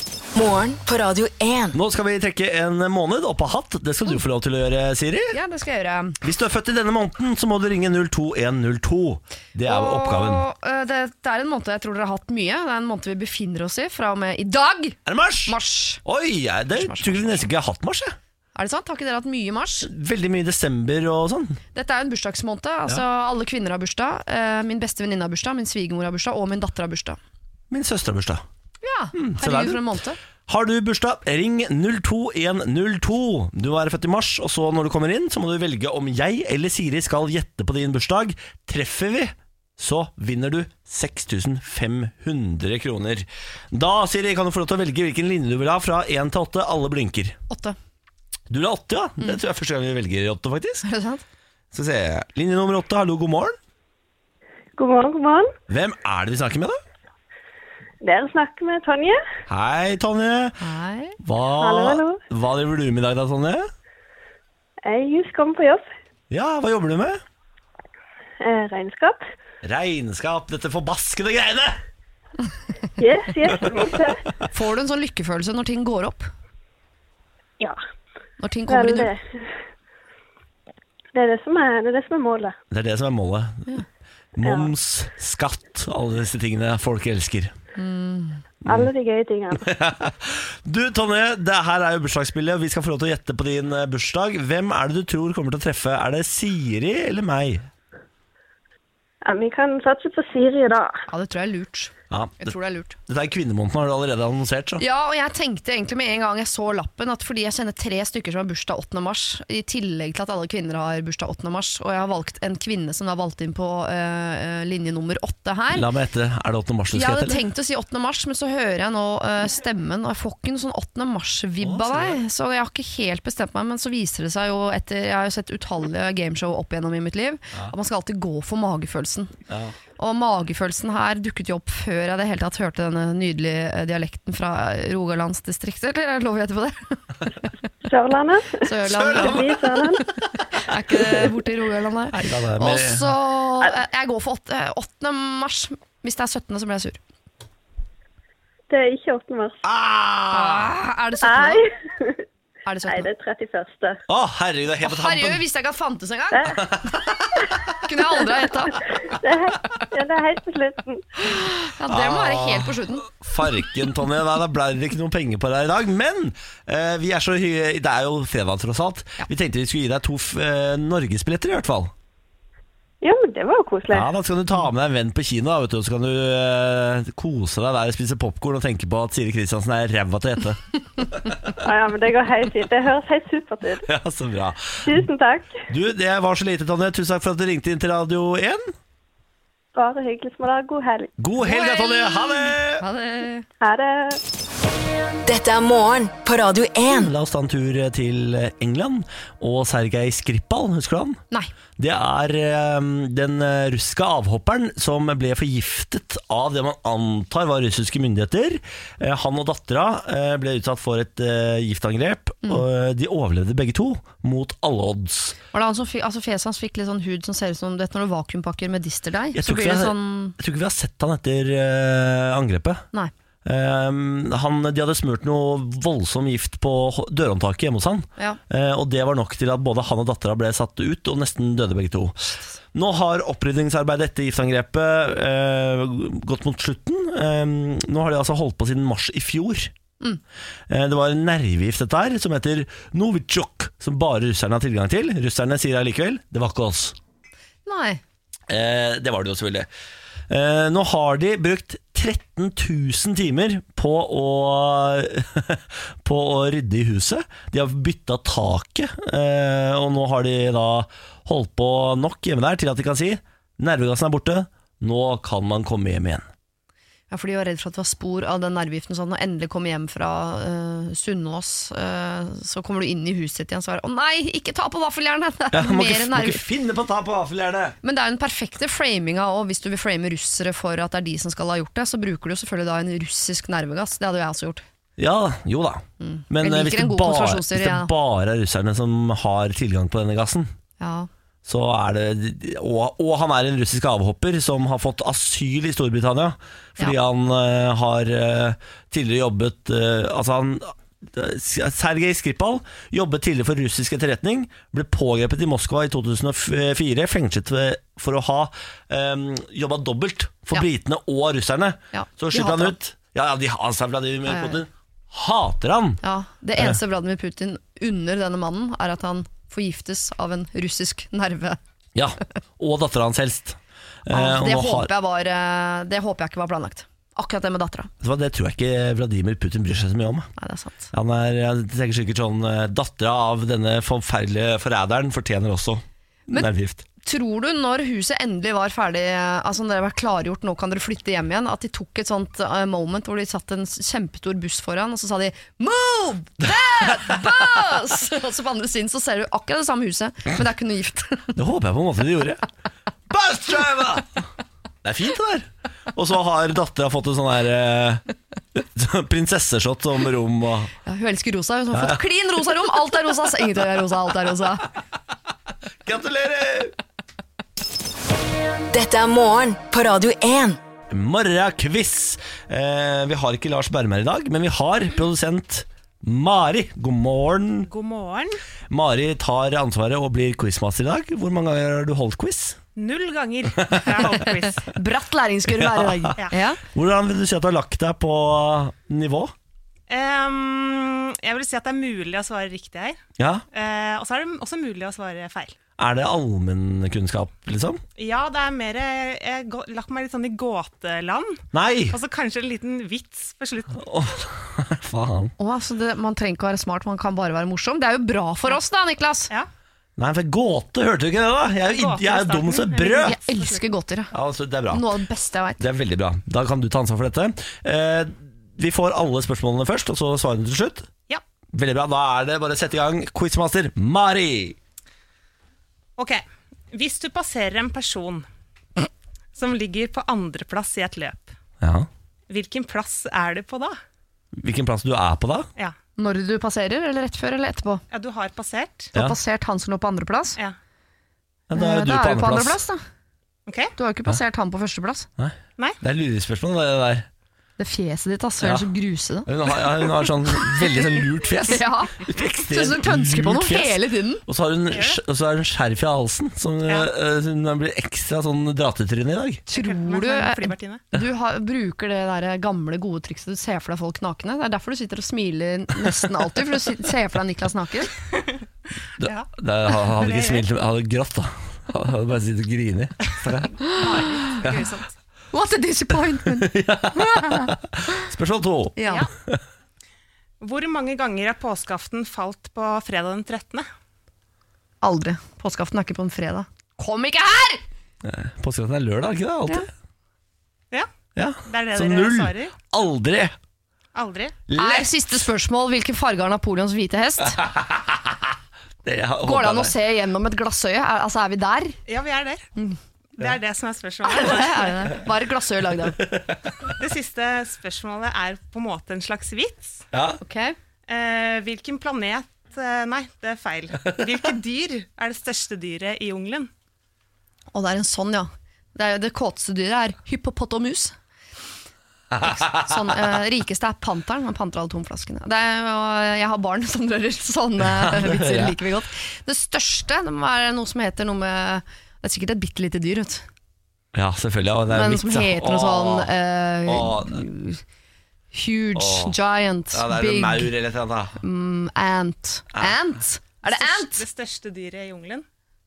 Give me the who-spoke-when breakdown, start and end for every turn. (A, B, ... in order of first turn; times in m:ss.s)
0:00.4-0:01.8 A
0:01.7-0:05.4 B
0:05.3-0:06.2 C
0:06.2-0:10.5 B
0:09.7-0:16.0 C
0:15.1-0:18.2 B
0:16.7-0:17.5 C
0:18.6-0:19.9 C
0:19.8-0:21.6 B
0:21.7-0:27.2 C
0:27.7-0:28.4 B
0:28.8-0:30.2 C
0:29.1-0:29.9 B
0:30.5-0:47.4 B
0:47.5-0:47.8 C
0:48.5-0:50.8 B
0:50.8-0:51.2 C
0:51.7-0:53.6 B
0:54.8-0:55.5 D
0:55.7-0:56.8 B
0:58.0-0:59.2 D
0:59.5-1:00.6 B
1:00.6-1:01.2 C
1:01.2-1:03.7 B
1:01.6-1:02.2 D
1:04.8-1:05.9 D
1:06.3-1:07.2 B
1:08.4-1:09.2 D
1:09.6-1:11.8 B
1:13.0-1:14.2 D
1:14.5-1:16.3 C
1:18.4-1:19.1 C
1:18.7-1:19.2 D
1:21.1-1:22.6 D
1:22.7-1:23.7 B
1:24.4-1:27.6 B
1:24.4-1:24.7 D
1:27.8-1:28.4 C
1:28.7-1:29.7 D
1:29.6-1:37.7 B
1:39.2-1:41.0 D
1:41.1-1:43.0 C
1:42.1-1:42.6 B
1:43.1-1:44.8 B
1:44.8-1:55.9 C
1:55.7-1:57.4 B
1:56.9-2:09.3 C
2:01.6-2:02.2 B
2:09.5-2:09.8 B
2:10.0-2:17.5 C
2:17.8-2:20.0 D
2:18.6-2:19.5 C
2:18.9-2:19.6 B
2:20.5-2:27.0 C
2:22.1-2:23.1 B
2:28.7-2:29.6 D
2:29.6-2:30.8 B
2:30.3-2:31.6 C
2:31.2-2:32.2 D
2:32.7-2:33.1 C
2:32.9-2:34.0 D
2:34.1-2:35.4 B
2:34.8-2:36.6 C
2:36.6-2:37.4 B
2:37.8-2:38.8 C
2:39.1-2:41.1 D
2:41.2-2:43.1 C
2:41.9-2:51.9 B
2:53.0-2:54.1 D
2:53.9-3:01.4 B
3:01.6-3:03.9 D
3:03.9-3:05.1 B
3:04.8-3:05.6 D
3:05.7-3:08.7 B
3:09.8-3:11.1 D
3:11.2-3:12.8 B
3:11.4-3:13.5 C
3:13.6-3:14.2 D
3:15.3-3:17.1 A
3:16.9-3:21.2 B
3:21.8-3:35.4 B
3:35.5-3:40.4 C
3:39.3-3:42.8 B
3:43.4-3:59.7 B
4:00.7-4:07.0 B
4:07.7-4:08.0 C
4:08.5-4:09.7 B
4:10.3-4:26.2 B
4:27.1-4:36.4 C
4:35.5-4:37.8 B
4:37.8-4:44.6 C
4:45.0-4:50.5 B
4:46.0-4:47.9 C
4:50.8-4:51.1 C
4:51.5-5:16.0 B
5:11.9-5:12.8 C
5:14.3-5:14.6 C
5:16.0-5:21.6 C
5:22.0-5:24.9 B
5:24.1-5:27.9 C
5:28.0-5:30.3 B
5:30.4-5:30.9 C
5:30.9-5:36.8 B
5:37.0-5:51.4 C
5:51.4-5:52.4 B
5:53.1-5:54.2 B
5:54.8-5:58.0 B
5:58.6-6:00.7 B
6:00.8-6:04.7 C
6:01.7-6:02.0 B
6:05.8-6:06.8 B
6:08.7-6:10.6 A
6:10.9-6:17.7 B
6:17.7-6:18.4 E
6:18.7-6:22.6 B
6:22.8-6:24.7 E
6:23.7-6:24.2 B
6:24.6-6:26.6 C
6:25.5-6:29.3 B
6:29.9-6:33.0 E
6:33.2-6:33.4 B
6:33.5-6:35.6 E
6:35.8-6:37.8 B
6:38.0-6:43.8 E
6:41.5-6:42.0 B
6:43.8-6:45.3 B
6:45.4-6:49.3 C
6:50.0-6:53.2 B
6:51.7-6:53.6 E
6:53.0-6:54.1 C
6:54.1-6:54.9 B
6:54.7-6:55.6 C
6:55.6-7:00.9 B
7:01.5-7:04.6 B
7:06.0-7:08.3 E
7:09.3-7:11.3 E
7:11.6-7:11.9 B
7:12.3-7:13.8 E
7:14.4-7:15.5 B
7:16.0-7:17.8 C
7:17.9-7:18.9 E
7:19.0-7:20.4 C
7:21.5-7:22.6 B
7:21.5-7:22.8 C
7:23.5-7:23.7 E
7:23.8-7:25.1 C
7:25.2-7:27.1 B
7:27.6-7:29.3 C
7:28.4-7:28.7 B
7:29.3-7:39.4 B
7:31.5-7:34.2 C
7:34.7-7:35.0 E
7:39.5-7:47.9 C
7:39.5-7:40.8 E
7:49.0-7:49.3 E
7:49.0-7:53.6 B
7:49.9-7:50.4 E
7:53.6-7:54.9 E
7:53.6-7:54.4 C
7:55.3-7:57.5 C
7:56.2-7:58.8 B
7:58.8-7:59.1 C
7:58.8-7:59.1 E
8:00.4-8:03.7 E
8:04.8-8:07.6 C
8:08.0-8:09.7 B
8:11.2-8:13.4 B
8:11.5-8:12.6 E
8:14.0-8:14.4 E
8:14.5-8:14.9 B
8:14.6-8:17.4 C
8:17.4-8:18.2 B
8:18.8-8:19.7 B
8:19.2-8:21.8 C
8:21.9-8:22.4 E
8:23.2-8:24.9 E
8:24.0-8:26.0 C
8:26.7-8:29.8 E
8:29.9-8:30.2 B
8:30.2-8:30.6 C
8:30.9-8:36.5 E
8:37.5-8:40.9 C
8:42.2-8:42.8 B
8:42.2-8:53.2 C
8:47.6-8:48.6 B
8:53.9-8:56.1 B
8:54.7-8:57.6 C
8:56.6-8:57.2 B
8:58.3-9:00.5 C
8:58.8-8:59.2 B
8:59.7-9:01.2 B
9:01.2-9:04.0 C
9:03.4-9:05.2 E